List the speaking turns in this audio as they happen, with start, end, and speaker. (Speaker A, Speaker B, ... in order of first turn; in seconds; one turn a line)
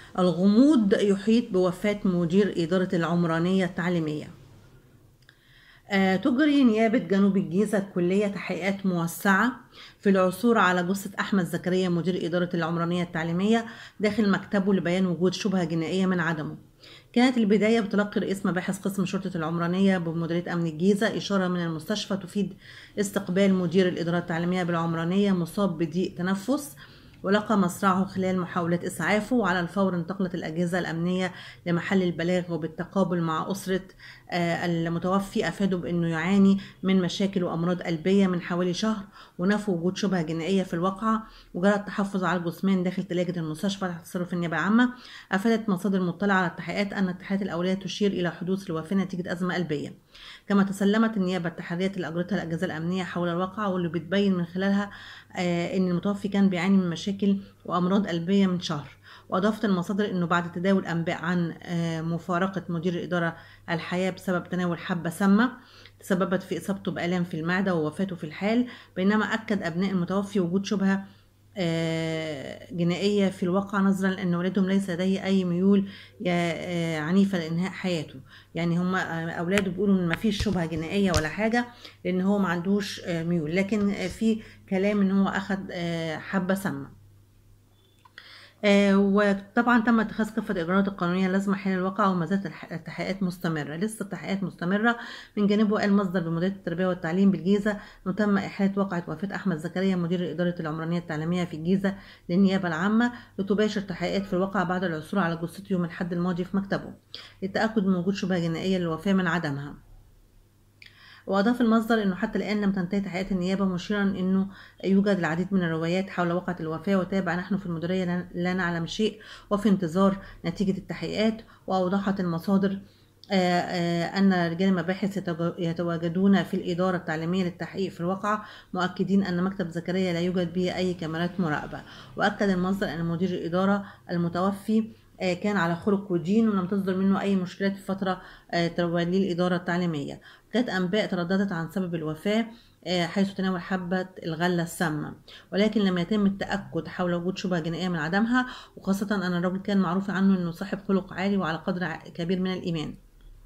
Speaker A: 0.2-4.3
Speaker A: 5.9-16.6
Speaker A: 17.1-50.0
Speaker A: 50.5-71.0
Speaker A: 71.6-86.9
Speaker A: 88.7-109.8
Speaker A: 111.3-122.8
Speaker A: 123.3-153.0